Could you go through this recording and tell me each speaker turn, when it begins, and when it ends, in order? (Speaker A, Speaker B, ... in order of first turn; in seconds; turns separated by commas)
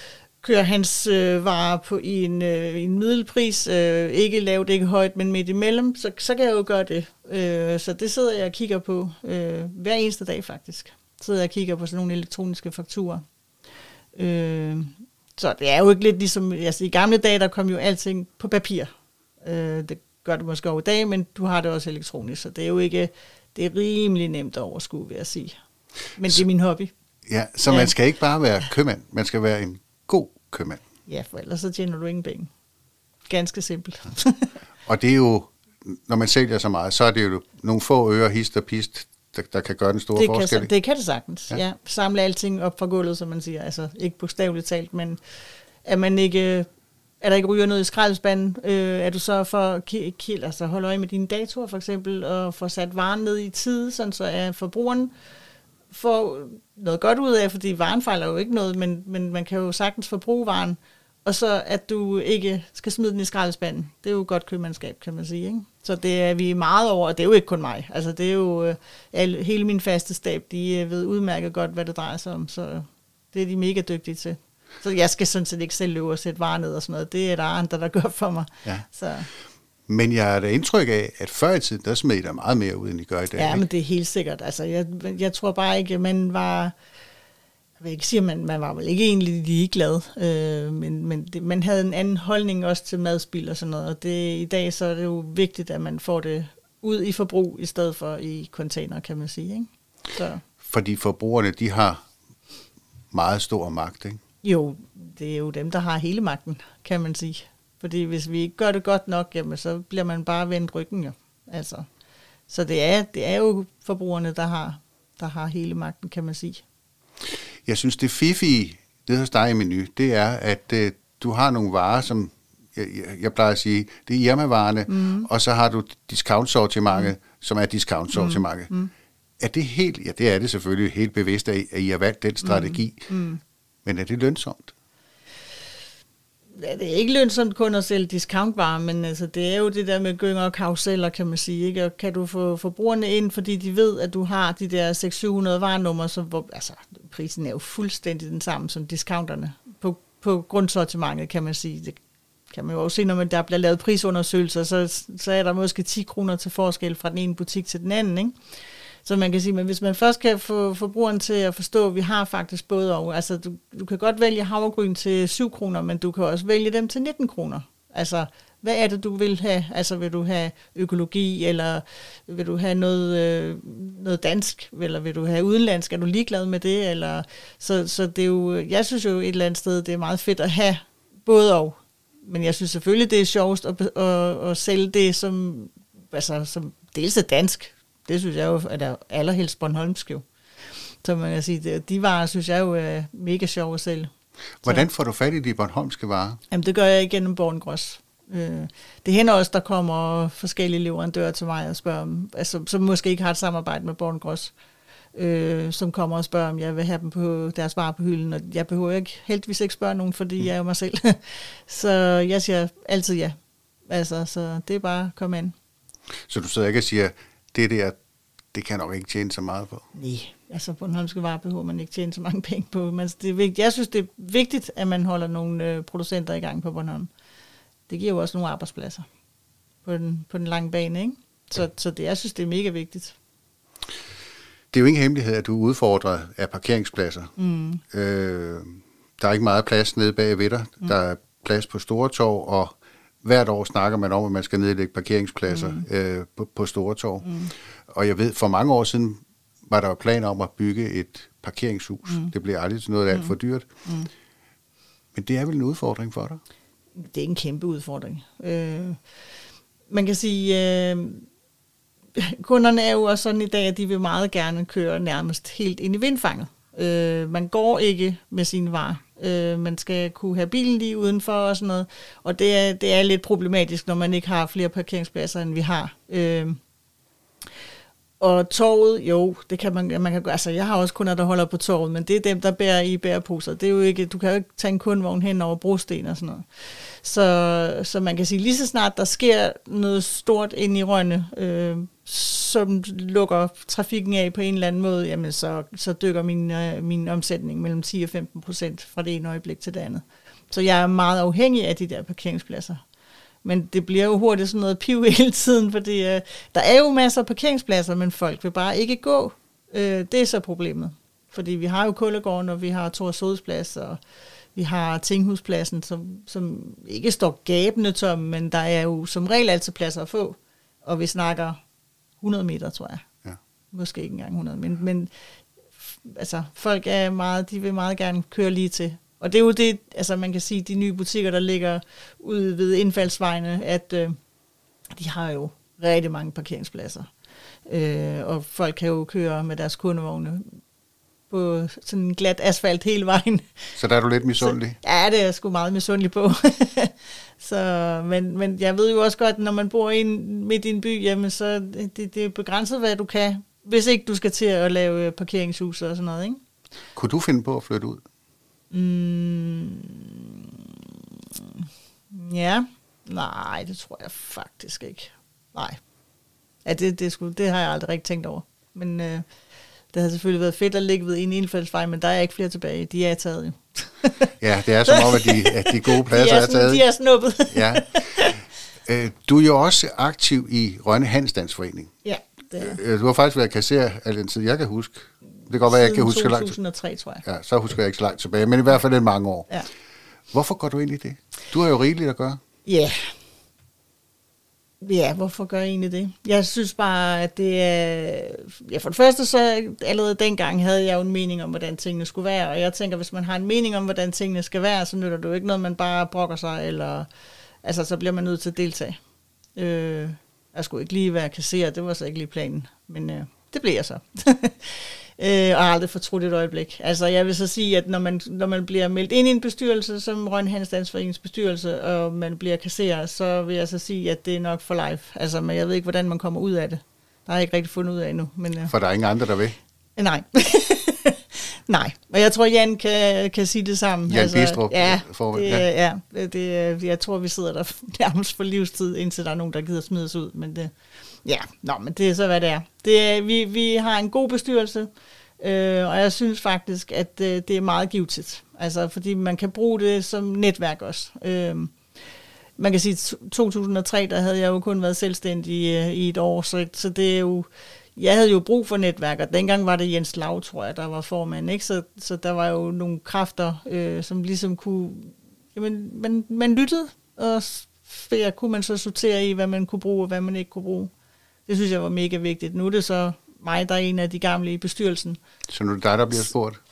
Speaker A: 0.4-13.2, Speaker A: 14.1-18.9, Speaker A: 19.4-25.6, Speaker A: 26.1-26.9, Speaker B: 27.2-30.8, Speaker A: 27.7-27.9, Speaker A: 31.1-32.5, Speaker A: 33.3-34.5, Speaker B: 34.9-40.7, Speaker A: 40.1-45.2, Speaker A: 45.8-46.7, Speaker A: 47.2-55.1, Speaker A: 55.9-79.3, Speaker B: 79.9-83.6, Speaker A: 83.3-86.7, Speaker A: 87.8-100.4, Speaker B: 100.6-102.0, Speaker B: 103.1-104.2, Speaker A: 104.4-111.9, Speaker A: 112.5-116.6, Speaker B: 117.6-128.7, Speaker A: 124.9-125.3, Speaker A: 128.1-128.9, Speaker B: 129.4-133.1, Speaker A: 132.4-133.4, Speaker B: 133.8-134.7, Speaker A: 136.5-152.0, Speaker A: 152.5-158.4, Speaker A: 159.0-190.3, Speaker A: 191.0-194.1, Speaker B: 194.6-196.4, Speaker A: 196.5-204.5, Speaker A: 205.1-213.3, Speaker A: 213.9-215.5, Speaker B: 216.3-218.0, Speaker B: 218.5-219.8, Speaker A: 219.9-227.1, Speaker A: 227.9-229.1, Speaker A: 229.8-233.2, Speaker B: 234.7-237.3, Speaker A: 237.4-237.8, Speaker B: 237.9-247.3, Speaker A: 245.5-245.8, Speaker A: 247.2-247.5, Speaker B: 247.9-253.7, Speaker A: 253.8-254.1, Speaker B: 255.1-256.4, Speaker A: 256.9-259.0, Speaker A: 259.9-261.3, Speaker A: 262.1-276.6, Speaker A: 278.2-302.8, Speaker A: 303.4-314.0, Speaker A: 314.5-321.6, Speaker A: 322.2-323.1, Speaker A: 323.7-325.1, Speaker A: 325.8-334.2, Speaker A: 334.9-337.1, Speaker A: 337.7-340.6, Speaker A: 341.3-343.7, Speaker B: 343.8-344.8, Speaker A: 344.4-356.4, Speaker B: 356.9-358.0, Speaker A: 358.7-365.8, Speaker A: 366.6-369.2, Speaker A: 369.9-374.3, Speaker B: 374.4-376.8, Speaker A: 374.9-378.4, Speaker B: 377.5-381.9, Speaker A: 382.0-382.8, Speaker B: 382.6-386.6, Speaker A: 385.6-387.2, Speaker B: 387.2-389.5, Speaker B: 390.3-392.4, Speaker A: 392.6-393.1, Speaker A: 394.8-407.1, Speaker A: 407.6-409.0, Speaker A: 409.6-428.7, Speaker B: 428.7-429.6, Speaker A: 429.9-440.7, Speaker B: 434.1-435.7, Speaker A: 441.2-451.8, Speaker A: 452.6-470.9, Speaker A: 471.5-475.2, Speaker B: 475.5-476.6